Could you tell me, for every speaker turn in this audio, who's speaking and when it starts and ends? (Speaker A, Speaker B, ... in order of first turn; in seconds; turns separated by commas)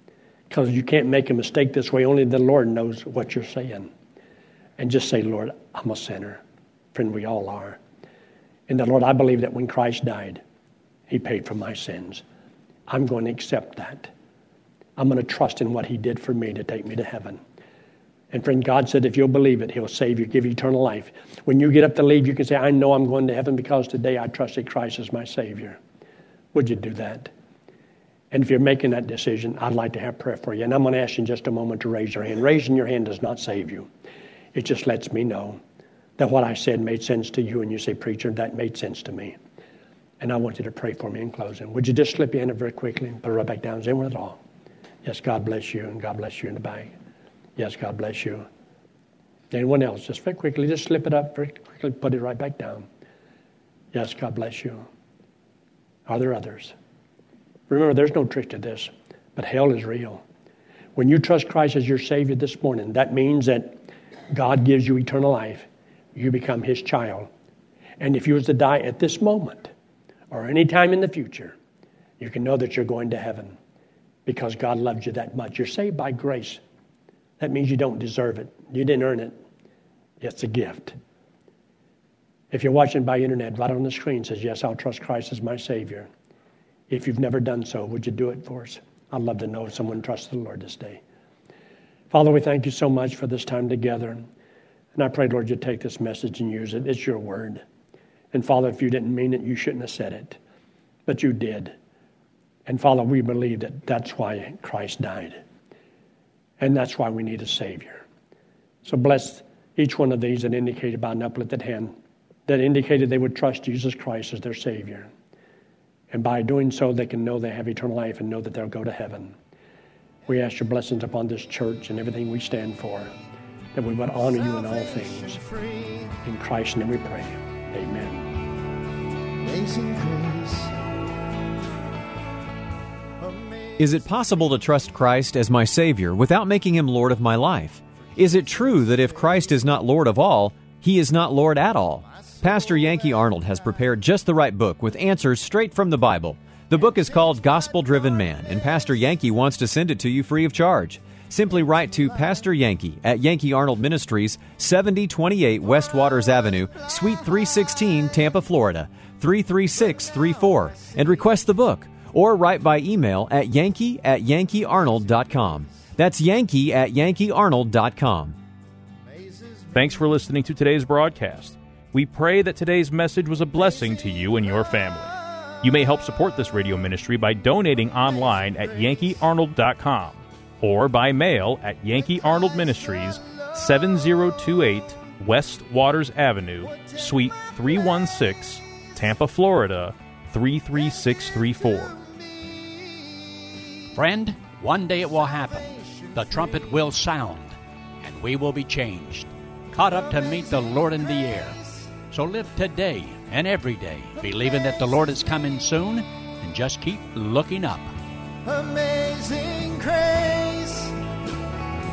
Speaker A: 0.5-3.9, Speaker A: 4.8-6.4, Speaker A: 6.9-7.8, Speaker A: 8.7-10.4, Speaker A: 11.1-12.2, Speaker A: 12.9-14.1, Speaker A: 15.0-17.4, Speaker A: 18.3-25.8, Speaker A: 26.5-27.3, Speaker A: 28.3-33.9, Speaker A: 34.5-35.6, Speaker A: 36.2-39.4, Speaker A: 40.2-44.4, Speaker A: 45.0-46.9, Speaker A: 47.6-48.5, Speaker A: 49.5-52.9, Speaker A: 53.9-54.9, Speaker A: 56.1-56.8, Speaker A: 57.7-60.2, Speaker A: 61.0-63.8, Speaker A: 64.3-67.3, Speaker A: 68.0-69.7, Speaker A: 70.3-71.5, Speaker A: 72.2-73.6, Speaker A: 74.3-76.6, Speaker A: 77.4-79.3, Speaker A: 80.2-81.0, Speaker A: 82.5-86.1, Speaker A: 86.9-91.0, Speaker A: 92.1-94.2, Speaker A: 95.0-97.6, Speaker A: 98.3-100.4, Speaker A: 101.1-101.7, Speaker A: 102.7-105.4, Speaker A: 106.6-108.0, Speaker A: 108.8-111.9, Speaker A: 112.5-115.1, Speaker A: 116.1-119.4, Speaker A: 120.3-123.1, Speaker A: 123.8-125.4, Speaker B: 124.4-126.2, Speaker A: 126.2-128.3, Speaker B: 129.4-130.9, Speaker B: 133.2-134.1, Speaker C: 133.8-168.4, Speaker B: 142.6-143.4, Speaker B: 160.0-161.2, Speaker B: 169.1-169.7, Speaker D: 169.7-192.0, Speaker B: 191.9-193.7, Speaker E: 194.0-195.6, Speaker B: 195.6-196.7, Speaker E: 196.2-201.6, Speaker B: 200.2-201.9, Speaker E: 202.1-207.9, Speaker B: 204.3-204.6, Speaker B: 208.4-211.0